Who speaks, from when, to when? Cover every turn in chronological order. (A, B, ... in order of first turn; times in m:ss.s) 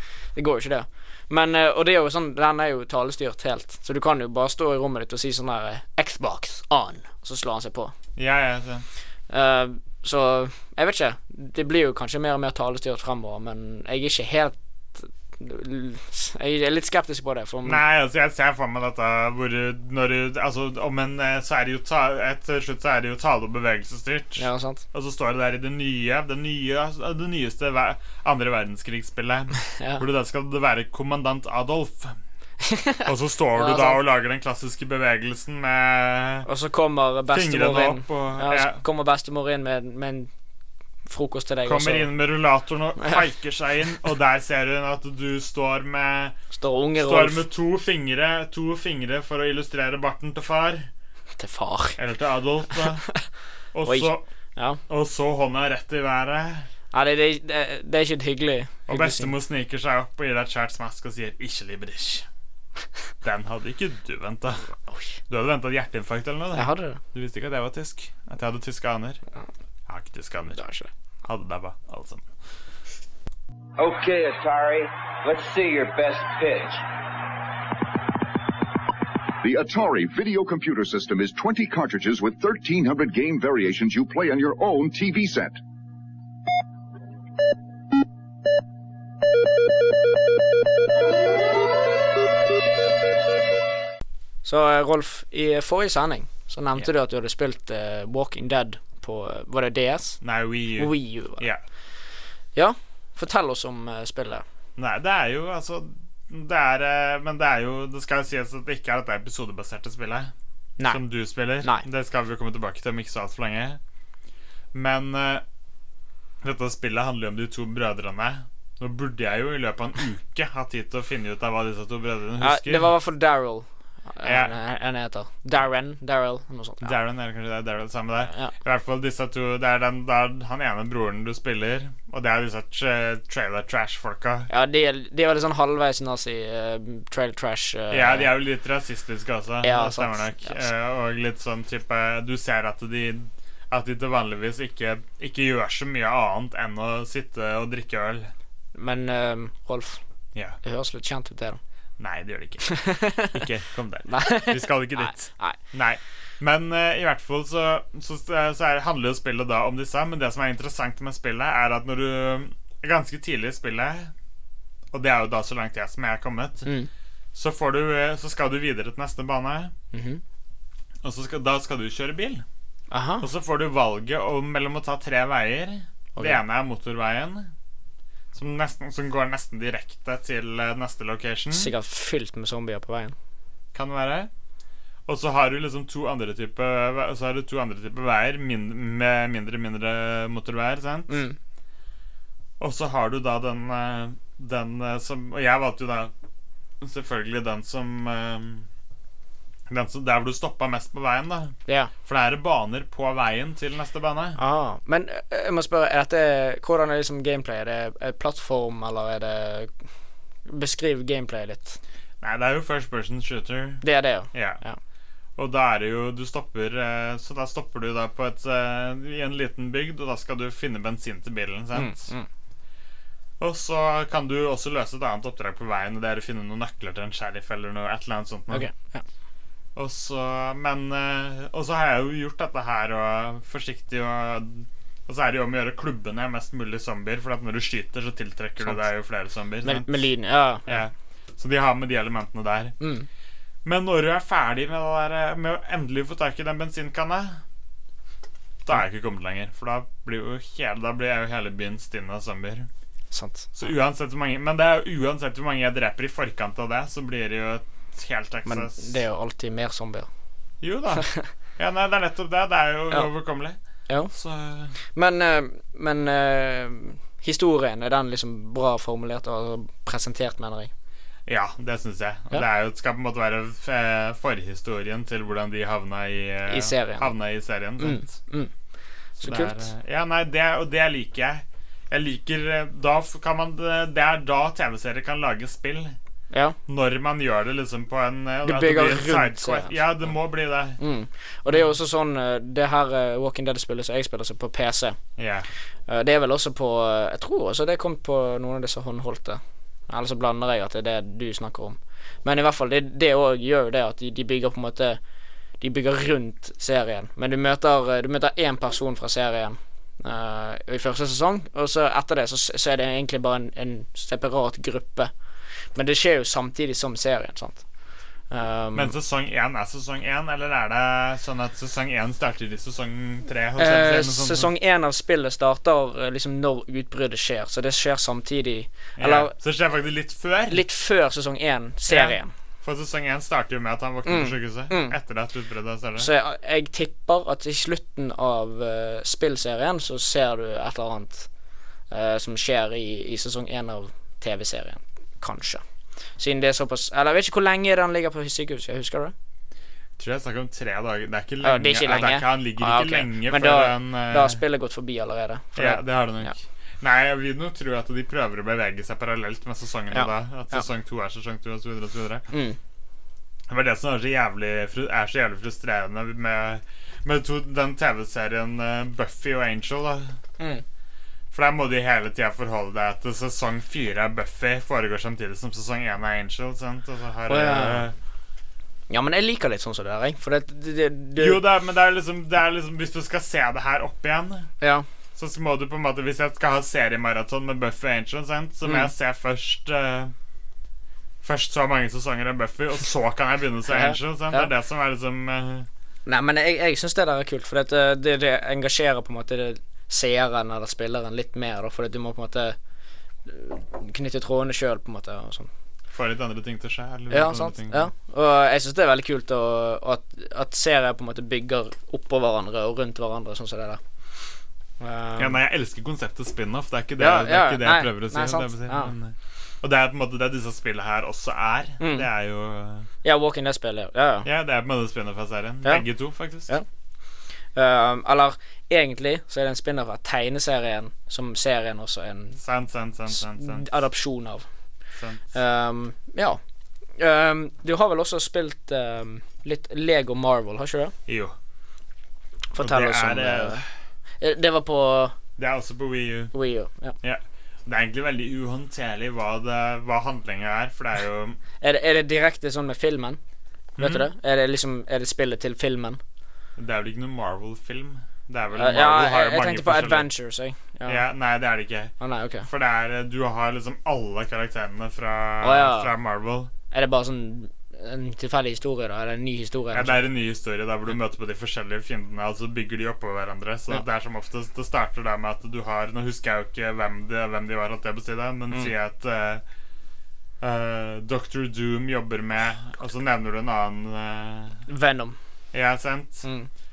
0:00.4-0:07.9 A
0:08.2-0:08.8 B
0:09.3-0:17.8 A
0:17.6-0:32.2 B
0:24.4-0:24.8 A
0:29.7-0:30.0 A
0:32.6-0:34.0 A
0:33.0-0:36.5 B
0:36.5-0:40.3 A
0:37.3-0:38.8 B
0:41.1-0:42.1 A
0:41.6-0:46.4 B
0:46.5-0:47.4 A
0:47.0-0:50.9 B
0:51.4-0:52.0 A
0:52.0-0:53.1 B
0:53.7-0:54.2 B
0:53.8-0:54.8 A
0:54.9-0:56.7 B
0:56.9-0:59.4 A
0:58.9-1:02.3 B
1:03.2-1:04.7 B
1:04.9-1:05.1 A
1:05.3-1:09.2 B
1:06.5-1:07.0 A
1:09.9-1:10.6 B
1:10.6-1:10.9 A
1:11.2-1:12.3 B
1:13.8-1:16.8 C
1:19.4-1:25.6 D
1:34.4-1:40.2 A
1:40.2-1:41.6 B
1:40.8-1:41.4 A
1:42.6-1:44.4 A
1:44.8-1:50.3 B
1:50.9-1:53.8 B
1:54.7-1:55.4 B
1:56.4-2:02.9 B
2:02.4-2:07.0 A
2:04.2-2:04.6 B
2:06.8-2:14.5 B
2:14.5-2:18.3 A
2:17.9-2:28.3 B
2:19.6-2:20.6 A
2:28.8-2:30.0 A
2:30.6-2:31.6 A
2:32.0-2:44.1 B
2:32.6-2:33.4 A
2:34.1-2:35.6 A
2:44.9-2:46.7 B
2:47.3-2:49.7 B
2:49.9-2:50.2 A
2:51.0-2:52.4 B
2:52.9-2:53.3 A
2:53.2-2:57.5 B
2:58.3-3:01.7 B
3:01.5-3:03.1 A
3:03.7-3:04.3 B
3:05.1-3:11.2 B
3:11.1-3:11.4 A
3:12.6-3:16.1 B
3:16.8-3:18.7 B
3:19.7-3:24.4 B
3:21.7-3:21.9 A
3:24.4-3:29.7 A
3:30.5-3:31.8 A
3:32.2-3:34.6 B
3:33.8-3:34.8 A
3:35.4-3:42.1 B
3:41.7-3:42.3 A
3:43.4-3:48.7 B
3:48.5-3:49.0 A
3:49.8-4:00.1 B
3:59.6-4:00.8 A
4:00.6-4:02.8 B
4:02.8-4:03.1 A
4:03.6-4:07.4 B
4:08.6-4:12.7 B
4:13.1-4:13.6 A
4:13.6-4:19.0 B
4:18.5-4:20.1 A
4:20.6-4:23.6 B
4:24.1-4:24.8 B
4:25.0-4:30.7 A
4:31.3-4:38.2 B
4:36.5-4:37.1 A
4:37.8-4:38.5 A
4:39.2-4:46.0 B
4:39.2-4:39.6 A
4:46.3-4:46.6 A
4:46.7-4:50.8 B
4:48.4-4:49.8 A
4:50.8-4:55.0 A
4:55.2-4:55.5 B
4:55.9-5:05.0 A
5:05.6-5:15.1 A
5:15.8-5:17.6 A
5:18.3-5:18.9 A
5:18.7-5:24.5 B
5:23.6-5:29.3 A
5:29.0-5:30.6 B
5:30.5-5:32.3 A
5:31.9-5:36.1 B
5:34.0-5:35.0 A
5:36.0-5:41.3 A
5:41.9-5:45.6 A
5:46.2-5:49.1 A
5:50.0-5:54.4 B
5:51.4-5:56.3 A
5:55.6-6:02.3 B
5:59.9-6:00.6 A
6:02.3-6:02.6 A
6:03.5-6:10.2 B
6:10.4-6:10.6 A
6:11.3-6:18.0 B
6:17.3-6:17.9 A
6:18.9-6:21.4 A
6:21.2-6:24.5 B
6:25.2-6:30.1 B
6:28.6-6:28.9 A
6:31.2-6:35.7 B
6:33.7-6:34.5 A
6:36.1-6:42.6 A
6:43.3-6:45.5 A
6:45.9-6:47.9 B
6:47.1-6:53.8 A
6:54.8-6:55.4 A
6:55.2-7:02.9 B
6:57.0-6:58.9 A
7:01.8-7:02.1 A
7:03.0-7:04.3 A
7:04.2-7:06.5 B
7:07.6-7:12.4 A
7:12.4-7:13.7 B
7:13.1-7:14.5 A
7:15.0-7:15.2 B
7:15.3-7:16.4 A
7:17.0-7:20.9 A
7:21.1-7:21.4 B
7:22.5-7:23.6 A
7:22.6-7:23.7 B
7:24.2-7:25.1 A
7:25.4-7:26.3 B
7:26.3-7:27.0 A
7:27.0-7:31.4 B
7:31.6-7:33.2 A
7:33.8-7:34.1 B
7:33.8-7:36.0 A
7:36.6-7:40.1 B
7:38.6-7:41.0 A
7:40.9-7:41.9 B
7:42.0-7:42.5 A
7:42.5-7:46.5 B
7:45.4-7:45.9 A
7:46.7-7:50.0 A
7:49.7-7:59.4 B
8:00.4-8:04.6 B
8:04.7-8:05.2 A
8:05.5-8:06.3 B